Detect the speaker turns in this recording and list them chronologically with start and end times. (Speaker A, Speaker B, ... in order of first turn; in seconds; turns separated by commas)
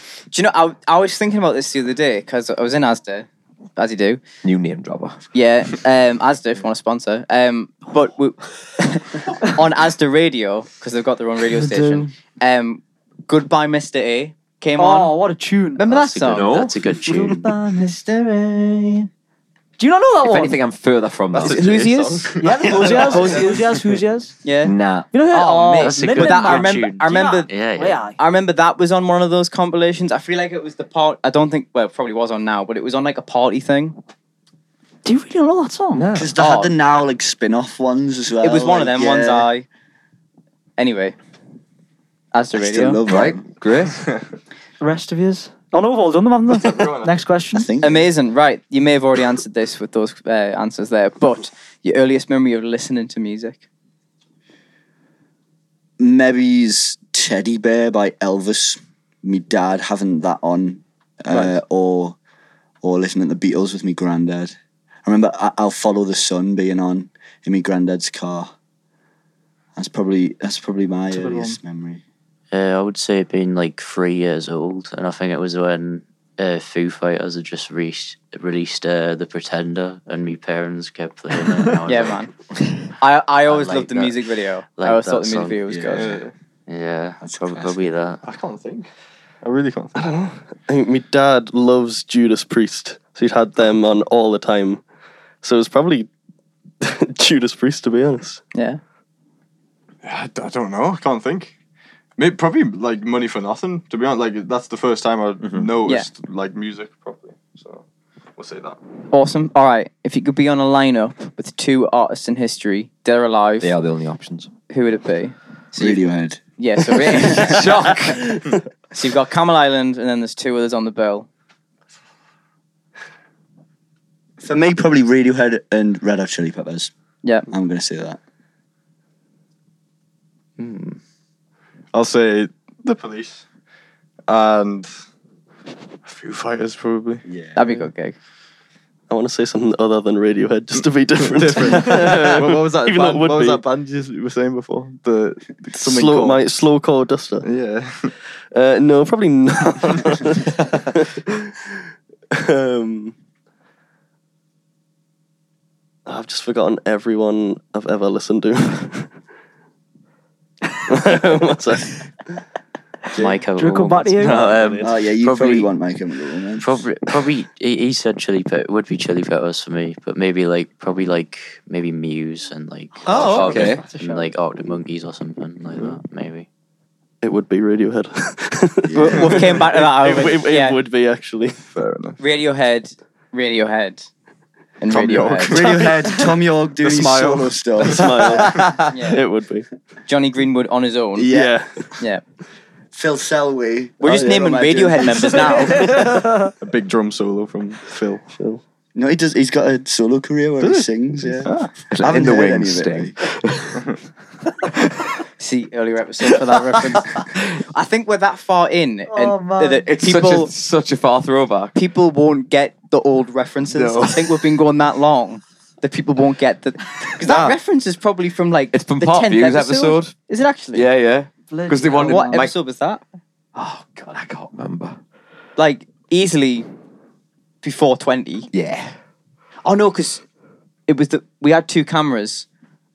Speaker A: 0.3-4.2, Speaker B: 4.4-5.2, Speaker A: 5.3-15.2, Speaker C: 11.5-12.1, Speaker C: 14.8-15.8, Speaker A: 15.8-16.6, Speaker D: 15.8-17.6, Speaker B: 16.3-16.8, Speaker C: 16.8-19.1, Speaker C: 19.8-20.6, Speaker B: 20.2-21.7, Speaker E: 21.3-23.8, Speaker A: 21.4-23.5, Speaker C: 22.4-24.4, Speaker F: 22.8-23.3, Speaker A: 24.4-27.5, Speaker B: 24.6-25.1, Speaker C: 25.1-28.2, Speaker D: 25.8-28.0, Speaker A: 28.2-34.0, Speaker C: 35.0-36.1, Speaker B: 35.9-36.4, Speaker G: 36.1-39.5, Speaker A: 36.4-36.7, Speaker A: 38.4-39.6, Speaker A: 40.8-41.1, Speaker A: 42.3-43.0, Speaker G: 42.5-43.4, Speaker B: 43.0-44.0, Speaker C: 44.8-47.7, Speaker E: 46.5-47.2, Speaker G: 47.5-48.1, Speaker A: 47.8-53.6, Speaker G: 56.0-62.1, Speaker G: 62.8-64.5, Speaker G: 65.0-68.5, Speaker G: 69.8-72.0, Speaker C: 71.1-71.6, Speaker D: 72.5-82.2, Speaker A: 81.8-82.3, Speaker A: 83.0-86.1, Speaker D: 83.5-85.6, Speaker G: 85.7-86.2, Speaker E: 85.9-86.3, Speaker D: 86.7-88.2, Speaker G: 87.2-87.7, Speaker E: 88.2-88.9, Speaker E: 89.4-90.0, Speaker F: 90.0-94.8, Speaker F: 95.4-96.1, Speaker F: 96.8-98.4, Speaker A: 98.5-98.8, Speaker E: 100.0-101.5, Speaker E: 102.2-107.8, Speaker B: 105.4-105.7, Speaker A: 105.8-106.1, Speaker E: 108.3-108.8, Speaker A: 109.1-113.7, Speaker B: 113.6-114.5, Speaker A: 114.7-116.0, Speaker G: 115.8-116.4, Speaker A: 116.6-117.9, Speaker B: 117.0-118.5, Speaker A: 118.9-121.3, Speaker G: 124.4-126.9, Speaker G: 127.5-128.2, Speaker D: 130.6-131.0, Speaker E: 131.9-133.4, Speaker E: 134.3-134.9, Speaker E: 136.0-137.2, Speaker G: 137.3-137.6, Speaker A: 137.6-138.1, Speaker F: 139.1-143.6, Speaker E: 141.2-146.4, Speaker F: 145.7-147.5, Speaker E: 147.4-148.1, Speaker F: 148.5-151.5, Speaker F: 152.3-153.1, Speaker F: 156.1-159.1, Speaker F: 160.9-162.4, Speaker G: 163.1-163.4, Speaker D: 163.1-164.8, Speaker C: 163.6-164.5, Speaker F: 164.2-164.9, Speaker B: 164.2-165.6, Speaker G: 164.8-166.8, Speaker D: 166.6-176.5, Speaker B: 173.1-173.8, Speaker A: 173.1-174.2, Speaker C: 173.7-174.1, Speaker F: 177.2-181.6, Speaker G: 178.8-179.5, Speaker A: 178.9-180.8, Speaker E: 179.1-179.4, Speaker E: 181.7-182.2, Speaker A: 182.2-184.1, Speaker A: 184.8-185.6, Speaker E: 184.9-185.9, Speaker G: 185.4-188.4, Speaker E: 186.8-188.1, Speaker F: 187.8-189.7, Speaker A: 188.9-189.2, Speaker A: 190.1-191.3, Speaker G: 191.2-191.6, Speaker F: 191.3-191.9, Speaker A: 191.9-192.2, Speaker G: 192.9-195.9, Speaker A: 194.0-196.1, Speaker C: 195.6-196.5, Speaker E: 196.6-198.2, Speaker F: 198.3-198.6, Speaker G: 198.9-203.2, Speaker E: 200.6-201.7, Speaker B: 201.9-203.8, Speaker A: 205.4-210.5, Speaker B: 206.5-207.0, Speaker C: 209.1-209.9, Speaker B: 209.9-211.7, Speaker A: 211.7-220.8, Speaker B: 213.7-214.4, Speaker B: 217.2-217.6, Speaker B: 218.7-220.1, Speaker B: 220.7-222.5, Speaker C: 221.5-222.4, Speaker A: 221.9-223.0, Speaker B: 223.5-225.0, Speaker A: 225.6-226.7, Speaker A: 227.6-228.5, Speaker B: 228.5-228.9, Speaker A: 229.6-230.2, Speaker A: 230.9-232.4